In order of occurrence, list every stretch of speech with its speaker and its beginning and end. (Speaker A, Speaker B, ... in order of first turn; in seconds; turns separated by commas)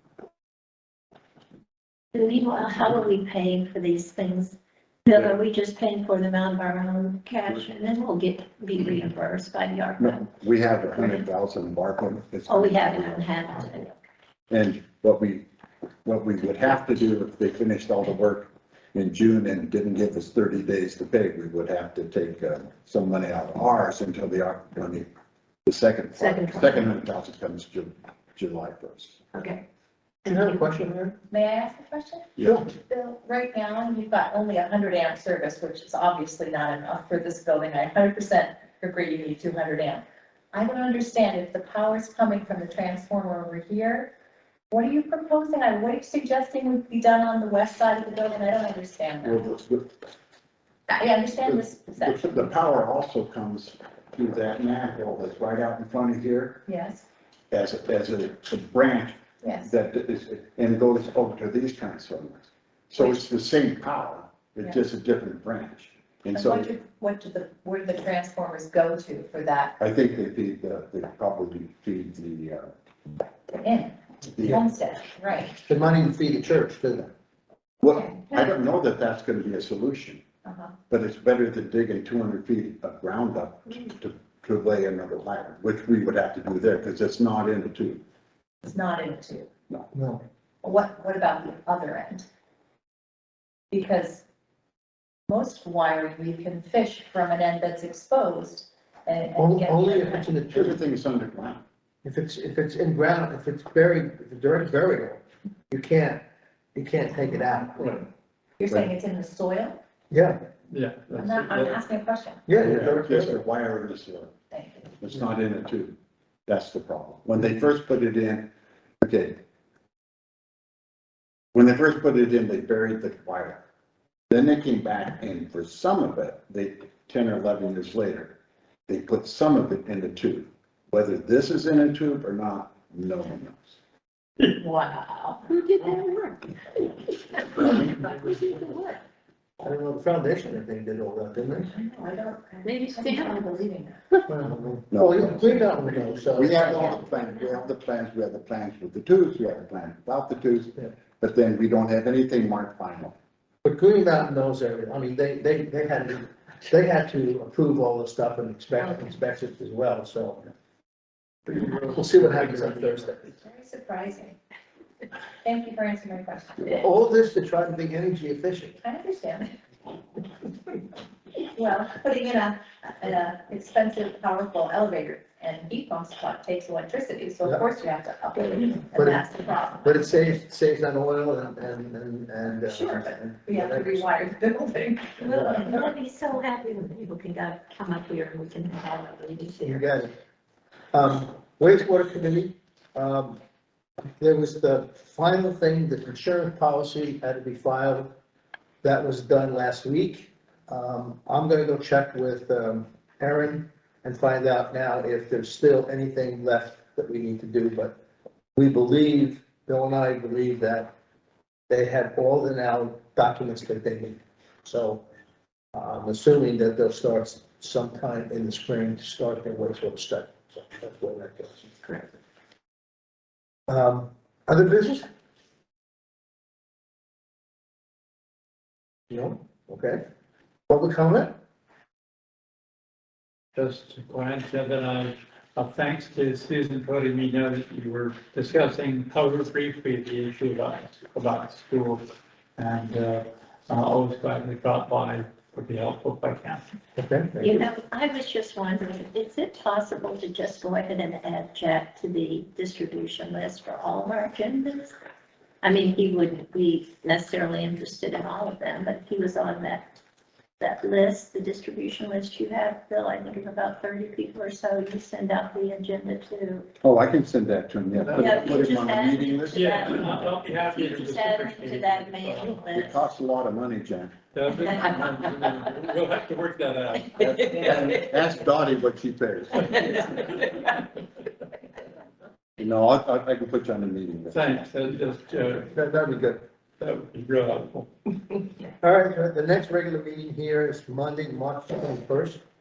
Speaker A: 2.1-10.3, Speaker B: 10.0-13.3, Speaker A: 11.0-11.2, Speaker A: 12.5-13.9, Speaker B: 14.5-15.5, Speaker B: 16.1-25.1, Speaker B: 25.7-29.2, Speaker A: 26.2-26.9, Speaker A: 29.3-29.6, Speaker A: 30.2-30.8, Speaker C: 30.2-31.2, Speaker D: 31.3-44.1, Speaker C: 32.4-32.7, Speaker D: 44.7-49.5, Speaker B: 49.2-49.9, Speaker D: 50.9-52.5, Speaker B: 51.5-56.6, Speaker D: 56.7-57.0, Speaker B: 57.5-66.7, Speaker D: 59.4-59.7, Speaker D: 63.0-63.2, Speaker D: 66.3-69.8, Speaker B: 69.8-72.7, Speaker D: 73.5-75.6, Speaker B: 74.3-74.6, Speaker C: 75.6-77.1, Speaker B: 77.8-80.2, Speaker D: 77.9-78.5, Speaker D: 80.5-80.7, Speaker B: 80.9-88.0, Speaker D: 88.6-89.5, Speaker C: 89.9-90.2, Speaker D: 90.6-92.3, Speaker D: 93.7-94.2, Speaker D: 95.3-100.4, Speaker C: 99.4-100.8, Speaker B: 100.5-101.6, Speaker C: 102.0-106.2, Speaker C: 106.8-108.1, Speaker D: 108.6-109.8, Speaker C: 110.1-110.4, Speaker E: 110.7-111.8, Speaker D: 111.1-112.4, Speaker C: 112.5-113.4, Speaker B: 112.6-114.3, Speaker D: 114.5-114.9, Speaker B: 115.0-119.4, Speaker B: 121.5-123.6, Speaker B: 124.3-133.8, Speaker D: 134.4-135.5, Speaker A: 135.5-139.0, Speaker C: 139.6-141.7, Speaker D: 141.7-144.0, Speaker A: 142.6-143.4, Speaker C: 144.3-147.0, Speaker B: 144.9-145.4, Speaker B: 146.3-153.2, Speaker C: 153.6-160.5, Speaker E: 161.5-162.9, Speaker C: 161.5-163.2, Speaker D: 163.4-164.4, Speaker D: 165.4-166.8, Speaker C: 166.8-168.8, Speaker D: 168.8-169.5, Speaker D: 171.5-179.9, Speaker A: 178.4-179.8, Speaker C: 178.9-179.2, Speaker C: 179.8-184.1, Speaker D: 182.6-185.4, Speaker A: 185.2-189.8, Speaker C: 185.3-185.6, Speaker C: 189.6-190.1, Speaker C: 190.9-193.4, Speaker C: 194.2-198.1, Speaker C: 198.8-208.0, Speaker C: 208.6-210.9, Speaker C: 211.7-215.0, Speaker C: 215.7-221.7, Speaker C: 223.7-225.1, Speaker C: 229.1-230.0, Speaker C: 230.7-231.3, Speaker E: 233.6-242.0, Speaker E: 242.6-246.6, Speaker C: 247.0-247.6, Speaker A: 247.4-254.9, Speaker A: 255.6-260.0, Speaker A: 260.6-266.7, Speaker B: 266.8-270.1, Speaker A: 268.1-273.1, Speaker E: 269.5-272.5, Speaker B: 272.7-274.1, Speaker E: 274.3-277.5, Speaker B: 277.2-280.1, Speaker B: 282.6-284.6, Speaker E: 284.3-285.7, Speaker C: 285.7-286.4, Speaker E: 286.8-287.9, Speaker C: 288.8-292.4